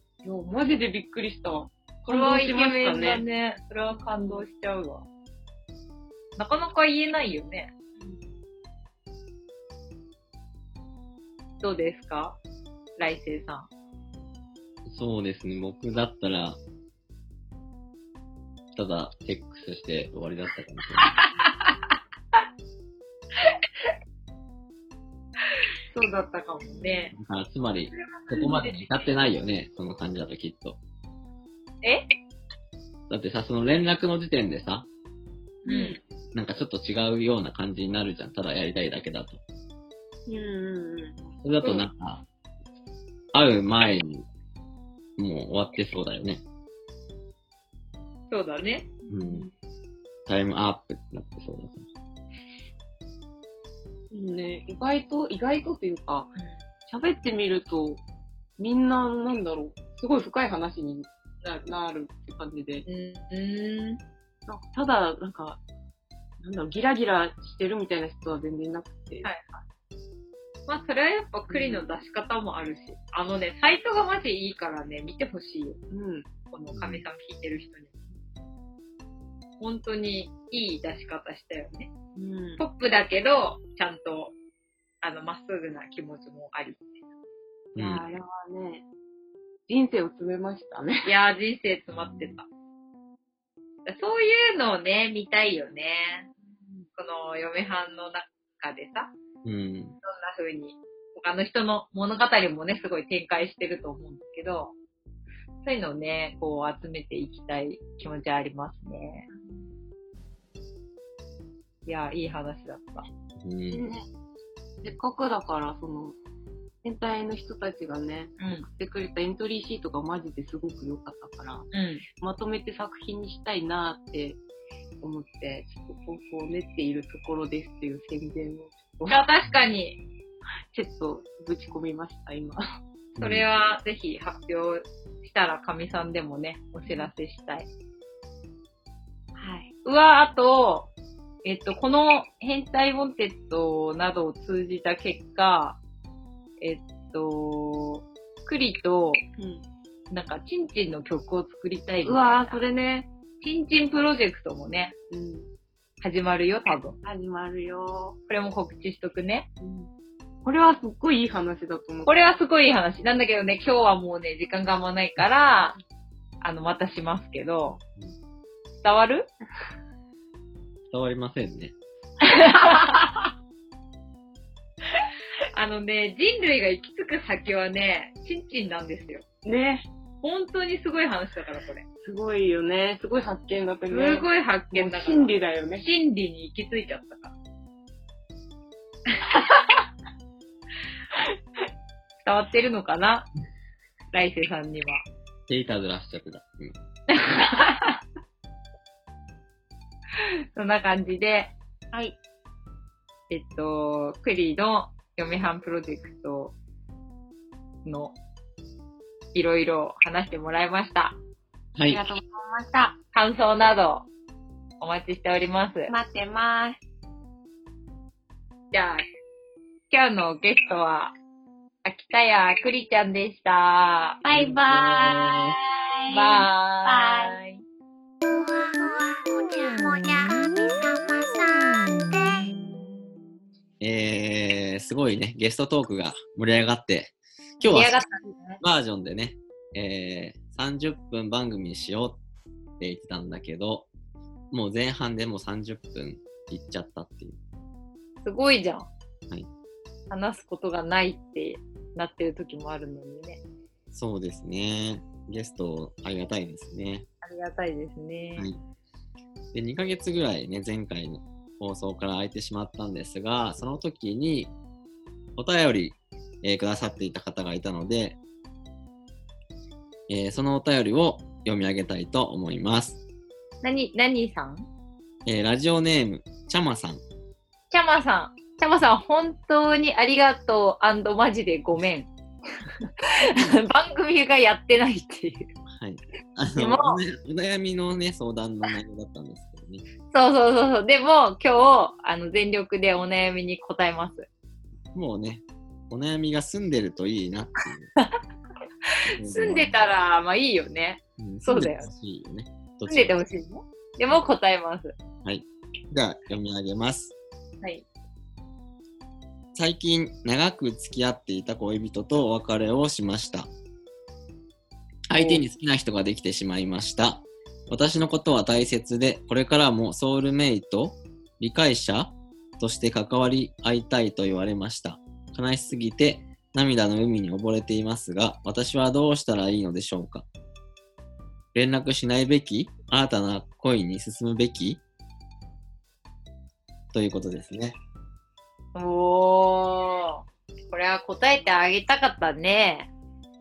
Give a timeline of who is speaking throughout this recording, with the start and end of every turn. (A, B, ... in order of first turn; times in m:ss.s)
0:00.2-0:03.2 A
0:02.1-0:05.0 B
0:06.4-0:07.7 B
0:11.6-0:12.4 B
0:13.0-0:13.7 B
0:14.9-0:16.6 C
0:18.8-0:21.1 C
0:25.9-0:27.1 B
0:26.6-0:27.1 A
0:27.1-0:30.8 C
0:28.2-0:28.7 A
0:33.1-0:34.9 C
0:35.6-0:36.0 A
0:35.7-0:36.0 B
0:36.3-0:39.4 C
0:40.3-0:41.8 A
0:41.4-0:42.2 C
0:43.3-0:44.3 C
0:45.2-0:46.4 C
0:48.3-0:48.9 B
0:49.1-0:49.5 A
0:49.1-0:49.5 C
0:50.3-0:51.8 C
0:54.1-0:56.4 A
0:56.9-0:58.0 A
0:58.6-1:01.1 A
1:01.6-1:02.9 A
1:02.9-1:04.0 B
1:04.5-1:05.6 A
1:06.4-1:09.3 A
1:09.2-1:09.6 B
1:10.7-1:15.8 B
1:11.5-1:11.9 A
1:15.9-1:16.3 A
1:16.5-1:18.1 B
1:16.7-1:17.0 C
1:19.6-1:21.9 B
1:22.2-1:22.6 A
1:22.6-1:24.3 B
1:25.0-1:26.9 B
1:27.8-1:28.0 C
1:27.8-1:28.8 A
1:29.7-1:31.1 A
1:31.0-1:32.5 B
1:31.9-1:32.4 C
1:33.9-1:36.3 B
1:36.5-1:36.9 A
1:37.0-1:39.1 B
1:39.4-1:40.0 C
1:40.0-1:44.7 B
1:45.6-1:49.3 B
1:49.3-1:49.7 A
1:51.9-1:53.1 B
1:53.4-1:53.8 C
1:53.7-1:54.0 A
1:54.8-1:56.2 A
1:56.8-2:01.7 A
1:58.4-1:58.7 B
2:01.7-2:02.0 B
2:02.2-2:04.4 A
2:05.0-2:09.2 A
2:09.1-2:10.0 B
2:10.7-2:12.6 A
2:13.2-2:13.5 C
2:13.2-2:17.7 B
2:16.9-2:17.1 A
2:19.4-2:19.7 A
2:19.8-2:20.9 B
2:21.4-2:25.8 B
2:26.6-2:29.2 B
2:29.4-2:29.6 A
2:30.1-2:32.6 B
2:32.0-2:33.1 A
2:33.4-2:34.9 B
2:35.1-2:35.5 A
2:36.0-2:37.0 B
2:37.0-2:38.2 A
2:38.3-2:39.5 B
2:39.6-2:39.9 A
2:40.4-2:42.2 A
2:42.1-2:45.8 B
2:46.4-2:47.8 B
2:48.8-2:49.3 B
2:50.9-2:51.7 C
2:52.2-2:53.2 B
2:55.5-2:59.2 B
2:59.4-2:59.9 A
3:00.2-3:01.8 B
3:02.0-3:05.9 A
3:03.9-3:07.3 B
3:09.2-3:09.6 B
3:12.2-3:13.3 B
3:14.1-3:15.0 B
3:15.5-3:16.8 C
3:17.1-3:18.0 B
3:20.2-3:21.5 B
3:23.3-3:26.6 B
3:27.8-3:28.2 B
3:29.3-3:31.2 B
3:31.8-3:32.0 C
3:31.9-3:32.9 A
3:33.1-3:34.1 B
3:34.8-3:35.9 B
3:35.9-3:36.8 A
3:38.7-3:39.0 B
3:39.9-3:41.1 B
3:41.8-3:44.2 B
3:44.3-3:45.4 A
3:44.3-3:45.4 D
3:44.5-3:45.1 C
3:46.1-3:47.6 B
3:46.9-3:47.3 D
3:48.3-3:52.5 D
3:53.8-3:58.0 C
3:57.7-3:58.6 B
3:58.6-4:02.2 C
4:02.8-4:03.9 C
4:04.5-4:07.4 C
4:08.2-4:08.9 B
4:10.1-4:13.4 B
4:13.9-4:17.1 C
4:17.2-4:18.5 B
4:19.5-4:24.5 C
4:25.4-4:28.2 C
4:30.1-4:33.0 C
4:33.6-4:34.7 B
4:35.3-4:37.0 C
4:37.7-4:42.1 B
4:42.9-4:45.5 B
4:45.7-4:49.8 C
4:46.6-4:47.0 B
4:50.1-4:54.3 B
4:54.9-4:57.9 C
4:58.9-5:01.9 B
4:59.1-4:59.8 C
5:01.2-5:03.2 C
5:02.9-5:05.0 B
5:05.2-5:07.1 C
5:09.6-5:13.5 C
5:15.1-5:30.2 C
5:15.1-5:15.4 B
5:31.5-5:34.8 C
5:36.9-5:37.8 C
5:38.8-5:42.9 B